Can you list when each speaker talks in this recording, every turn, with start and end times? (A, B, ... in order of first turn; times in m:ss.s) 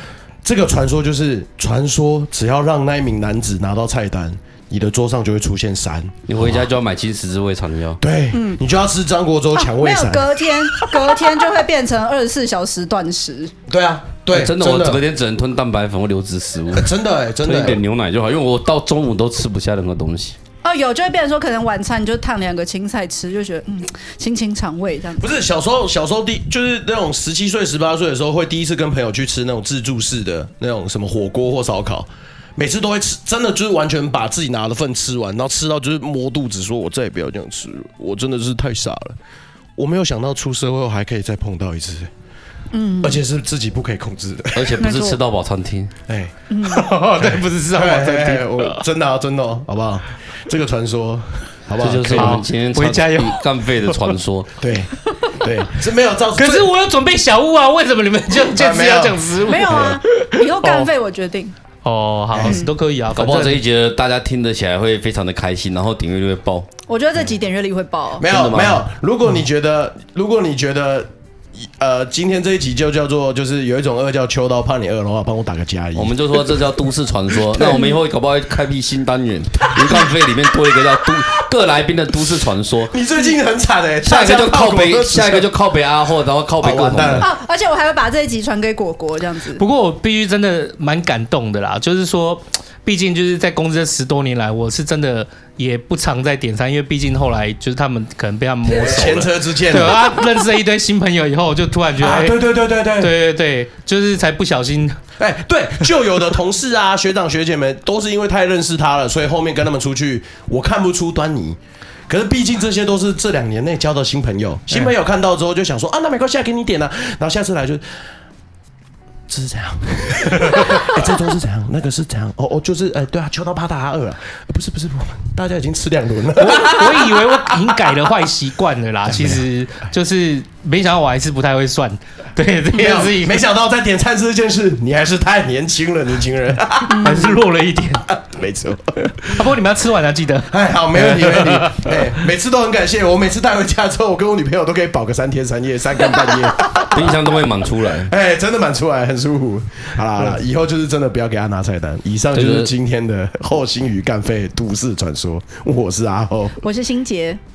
0:00.4-0:06.6 A
0:06.3-0:08.0 B
0:08.0-0:11.2 A
0:08.3-0:08.6 C
0:09.6-0:13.5 C
0:13.7-0:15.0 A
0:14.3-0:16.9 B
0:16.7-0:17.8 A
0:17.4-0:20.4 B
0:20.6-0:25.3 C
0:25.2-0:39.2 A
0:39.8-0:42.1 A
0:42.7-0:43.2 C
0:43.0-0:44.8 A
0:44.6-0:46.0 B
0:44.8-0:45.2 C
0:46.1-0:46.3 A
0:46.5-0:46.8 C
0:46.7-0:48.8 D
0:47.1-0:52.4 A
0:51.8-0:54.5 B
0:52.1-0:54.0 D
0:54.6-0:56.7 A
0:56.4-1:00.9 D
0:58.4-1:00.0 A
0:59.4-1:01.5 C
1:01.8-1:03.6 D
1:02.3-1:02.6 A
1:02.4-1:02.7 C
1:03.1-1:06.7 B
1:06.9-1:08.2 C
1:08.2-1:16.7 A
1:08.2-1:08.9 B
1:16.0-1:22.9 B
1:17.4-1:17.9 A
1:19.8-1:20.0 A
1:22.9-1:25.5 A
1:24.0-1:27.3 B
1:26.6-1:27.3 A
1:27.2-1:29.6 C
1:29.6-1:42.4 D
1:38.6-1:40.1 A
1:42.0-1:43.2 A
1:43.0-1:45.0 D
1:45.2-1:57.8 A
1:59.3-2:07.7 A
2:06.4-2:13.4 D
2:09.0-2:09.4 A
2:12.7-2:17.1 A
2:16.9-2:17.4 C
2:16.9-2:18.1 D
2:18.1-2:19.5 A
2:19.2-2:22.2 D
2:20.5-2:27.2 A
2:26.7-2:28.1 B
2:28.1-2:36.6 A
2:32.3-2:32.7 B
2:36.6-2:37.4 C